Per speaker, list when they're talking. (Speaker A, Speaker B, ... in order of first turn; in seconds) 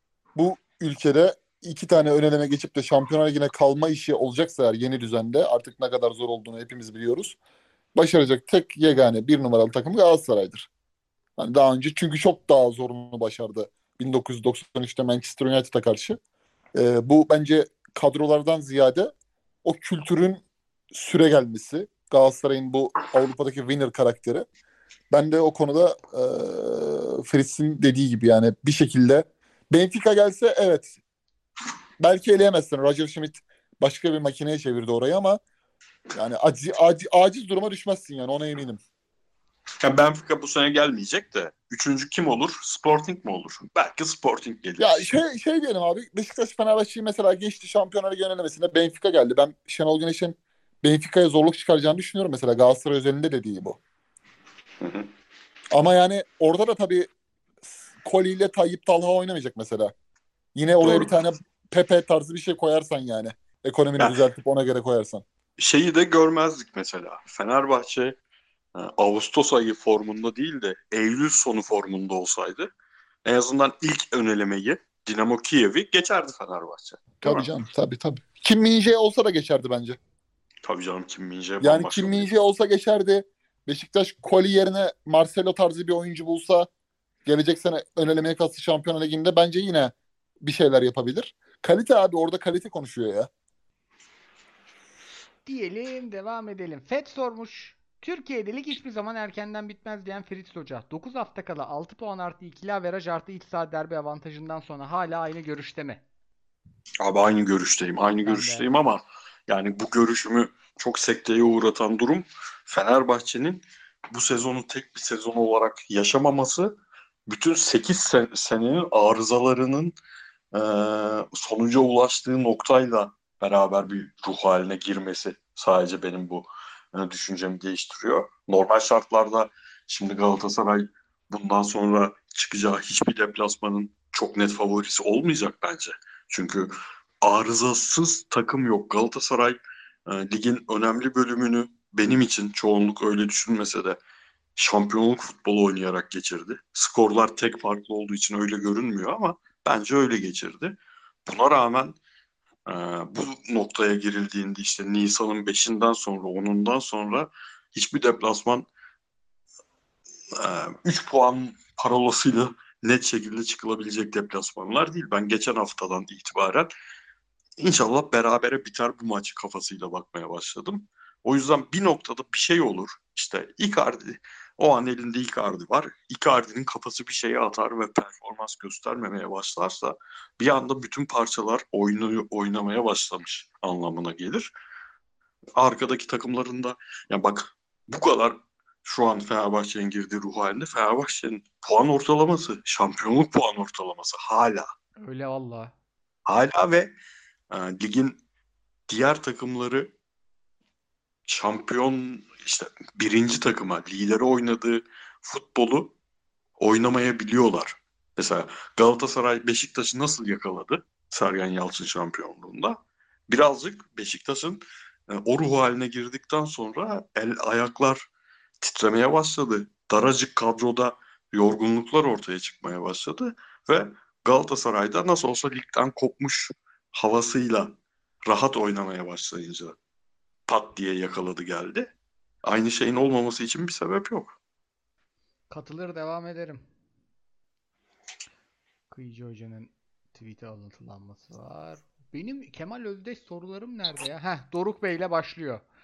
Speaker A: 0.3-7.4, 7.9-10.7, 11.4-16.2, 16.7-19.1, 19.6-20.4, 20.9-24.5, 25.1-30.9, 32.0-35.4, 36.1-38.8, 44.8-53.8, 55.7-57.1, 57.7-59.9, 60.5-65.2, 77.2-80.0, 81.6-86.7, 87.2-93.3
Speaker B: 39.8-45.1, 54.8-55.1, 60.8-61.1, 65.6-68.2, 68.7-72.7, 73.2-77.5, 80.6-82.3, 107.0-120.0, 120.5-144.0, 144.6-152.0, 152.7-158.7, 160.3-166.7, 167.6-184.5, 185.6-194.7, 196.2-196.9, 197.5-198.2, 198.9-199.9, 201.3-205.9, 206.6-218.1, 218.6-227.7, 228.2-229.8, 230.5-231.9, 232.4-234.4
Speaker C: 95.4-106.0, 108.2-108.7, 195.0-195.7, 235.5-236.6, 238.9-245.6